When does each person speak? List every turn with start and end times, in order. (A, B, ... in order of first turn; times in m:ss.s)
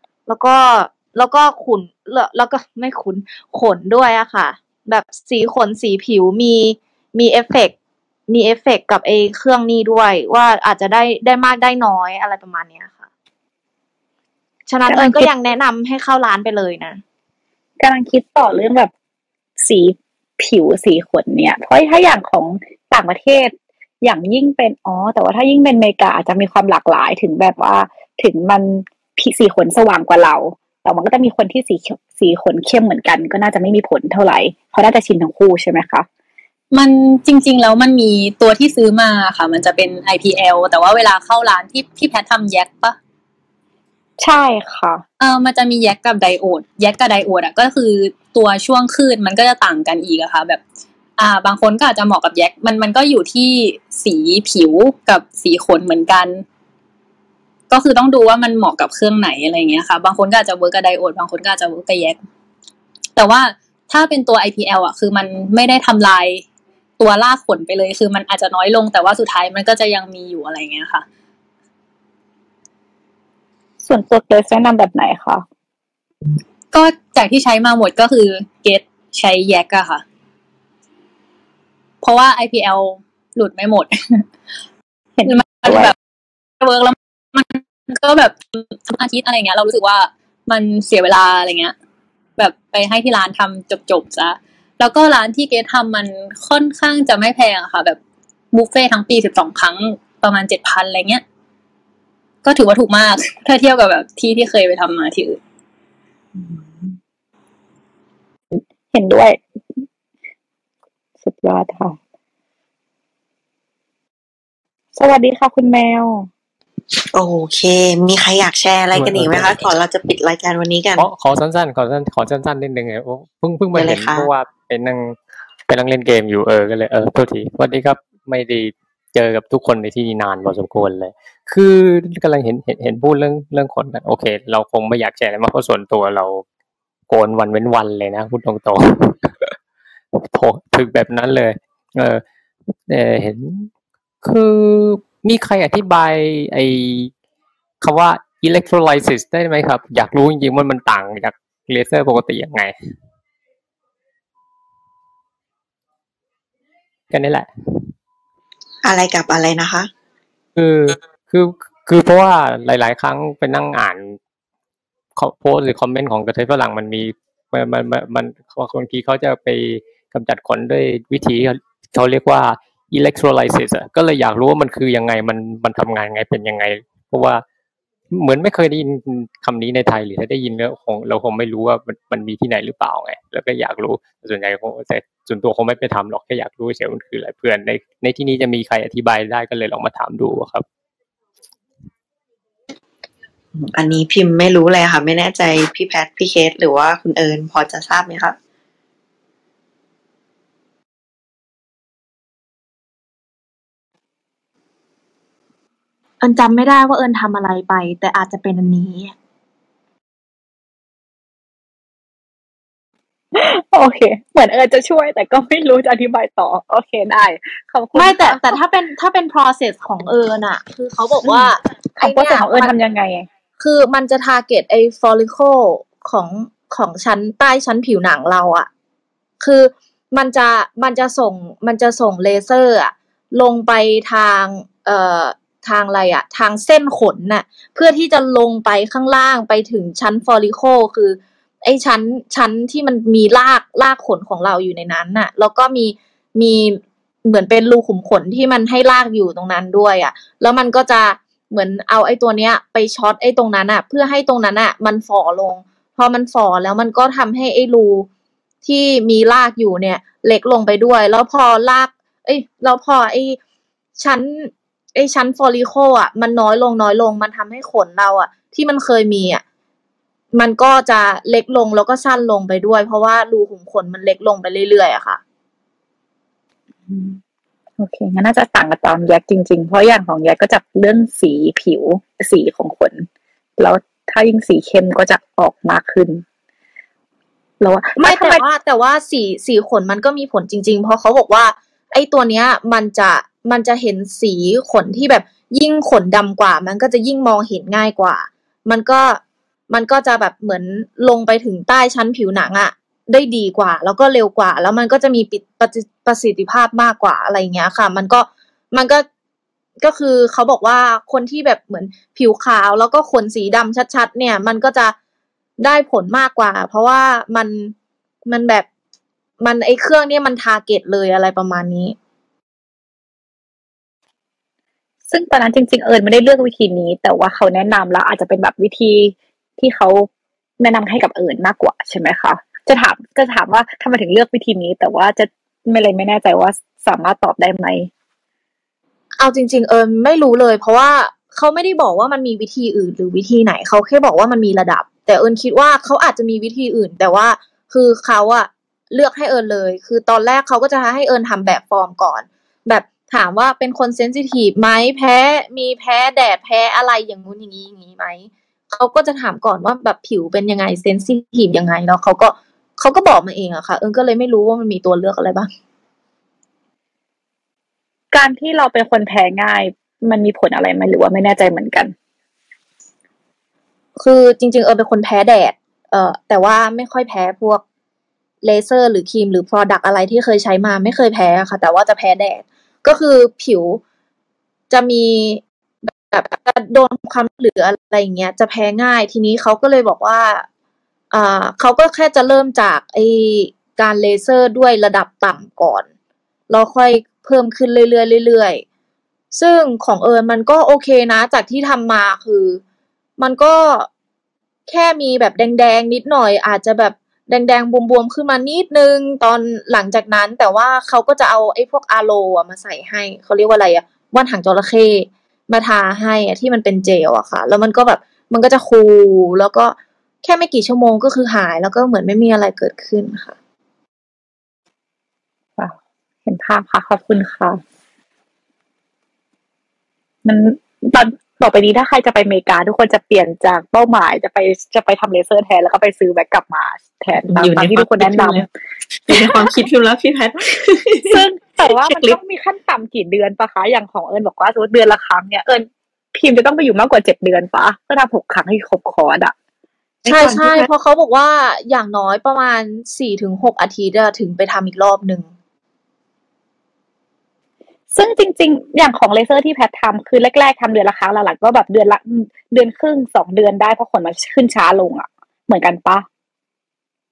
0:00.3-0:07.7 A
0:08.3-0:13.1 A
0:14.7-0:17.0 A
0:14.9-0:15.3 B
0:17.8-0:18.9 B
0:19.6-0:36.1 B
0:36.7-0:43.0 C
0:44.2-0:45.0 B
0:45.2-0:50.6 C
0:51.2-0:56.4 C
0:57.7-1:02.2 C
1:03.2-1:06.4 C
1:07.0-1:11.0 C
1:13.8-1:15.4 B
1:16.7-1:20.0 C
1:22.0-1:24.0 C
1:25.2-1:25.9 B
1:25.3-1:26.0 C
1:26.6-1:31.7 C
1:32.4-1:38.0 C
1:38.5-1:41.2 C
1:42.4-1:45.4 C
1:46.5-1:46.9 B
1:48.5-1:49.8 B
1:51.2-1:52.0 B
1:55.0-1:56.3 B
1:57.1-2:01.1 D
1:58.9-1:59.7 E
2:01.0-2:05.2 E
2:03.7-2:04.3 D
2:05.7-2:16.4 E
2:17.1-2:19.5 E
2:20.1-2:22.2 E
2:22.9-2:23.7 E
2:24.2-2:27.1 E
2:27.8-2:32.7 E
2:37.1-2:37.9 E
2:38.8-2:39.9 D
2:40.6-2:44.2 E
2:45.2-2:57.4 E
2:58.1-3:10.7 E
3:13.6-3:18.4 D
3:26.2-3:29.2 A
3:33.4-3:38.6 B
3:38.0-3:42.7 A
3:41.2-3:43.3 B
3:43.6-3:48.7 A
3:49.4-4:18.1 A
4:18.6-4:23.4 A
4:24.0-4:29.4 A
4:30.3-4:35.2 A
4:36.9-4:37.2 B
4:37.8-4:43.1 B
4:43.6-4:46.2 B
4:47.6-4:48.4 B
4:48.0-5:09.1 A
5:09.8-5:15.0 A
5:15.6-5:17.7 A
5:18.3-5:18.7 A
5:19.4-5:22.0 A
5:25.1-5:30.1 B
5:30.6-5:37.9 B
5:39.2-6:05.5 A
6:08.1-6:11.9 B
6:14.0-6:17.6 A
6:18.4-6:23.8 A
6:24.7-6:30.5 A
6:31.1-6:35.9 A
6:36.5-6:38.6 A
6:39.3-6:42.6 A
6:43.2-6:43.9 A
6:44.7-7:03.4 A
7:05.6-7:07.6 B
7:10.2-7:18.4 B
7:17.3-7:18.5 D
7:19.1-7:21.2 D
7:19.1-7:19.5 B
7:21.1-7:29.3 B
7:21.8-7:22.2 D
7:30.0-7:30.7 D
7:30.1-7:35.3 A
7:37.9-7:46.1 B